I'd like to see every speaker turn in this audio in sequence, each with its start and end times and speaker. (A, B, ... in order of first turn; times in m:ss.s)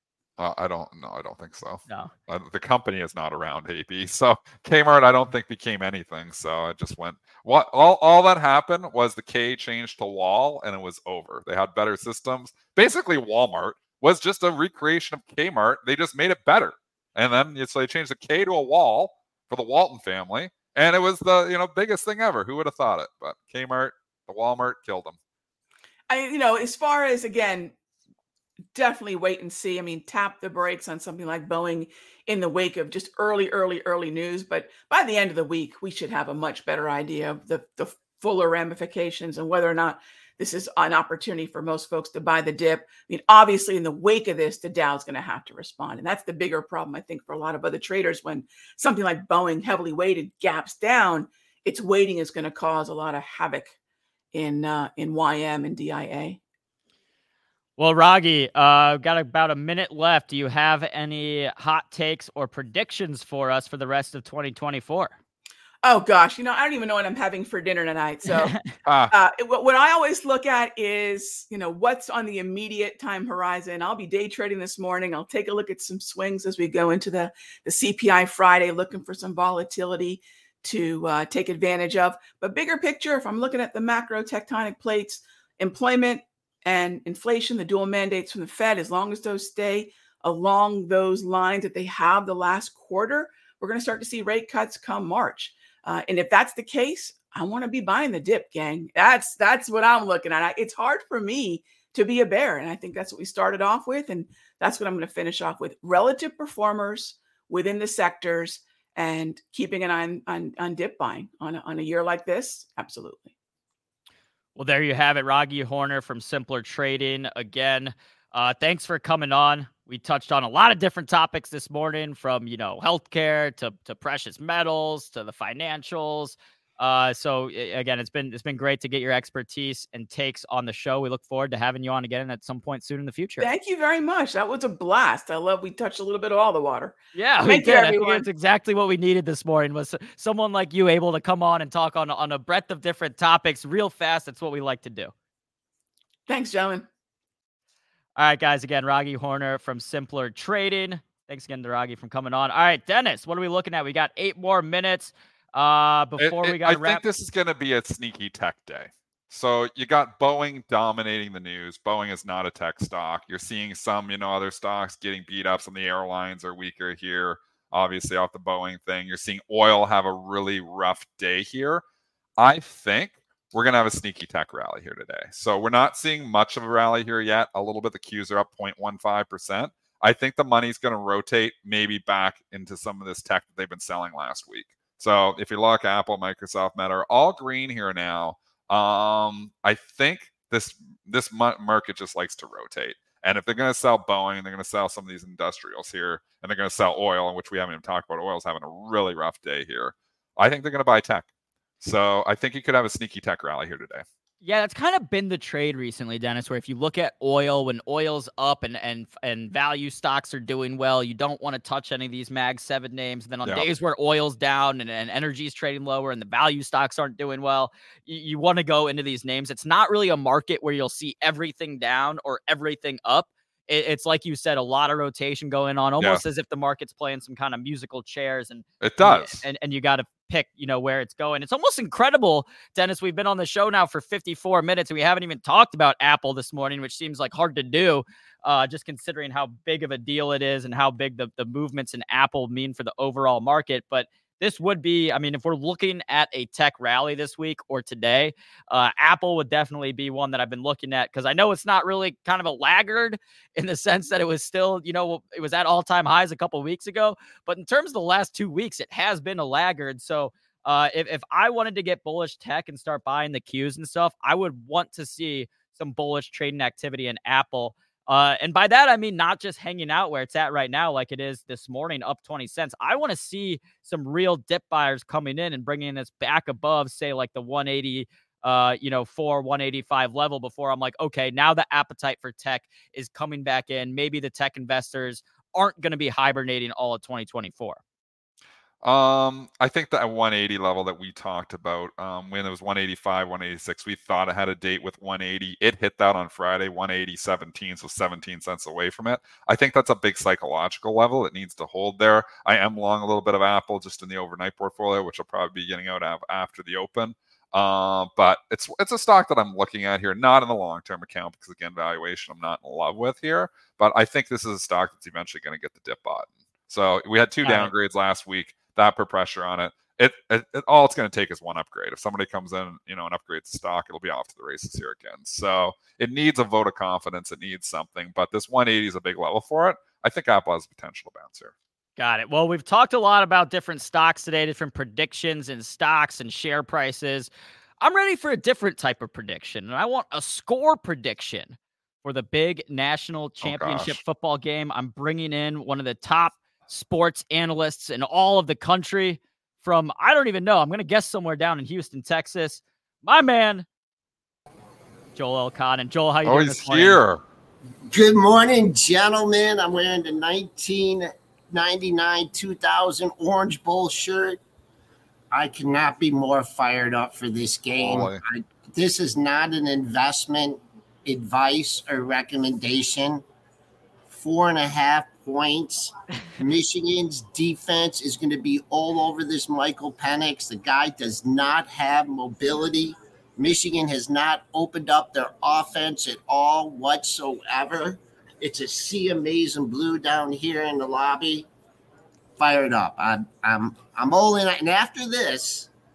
0:00.4-0:25.2 A
0:26.1-0:27.7 B
0:28.7-0:53.7 B
0:54.3-0:56.4 B
0:57.8-1:05.1 C
1:05.8-1:08.6 B
1:08.3-1:08.6 C
1:08.8-1:09.1 A
1:09.1-1:53.3 B
1:54.6-2:13.5 C
2:13.4-2:18.2 B
2:17.1-2:25.1 C
2:26.3-2:26.8 B
2:28.2-2:37.0 C
2:36.2-2:51.8 A
2:52.4-3:21.3 A
3:21.8-3:24.0 A
3:24.4-4:47.8 C
3:33.4-3:33.7 A
3:48.8-3:49.4 A
4:48.8-5:31.5 A
5:17.4-5:17.7 C
5:32.0-5:53.6 C
5:43.4-5:44.0 A
5:55.1-5:57.0 C
5:56.2-5:57.2 A
5:57.9-6:04.4 D
6:05.3-6:13.2 D
6:07.8-6:08.2 A
6:14.1-6:31.5 D
6:32.4-6:35.7 D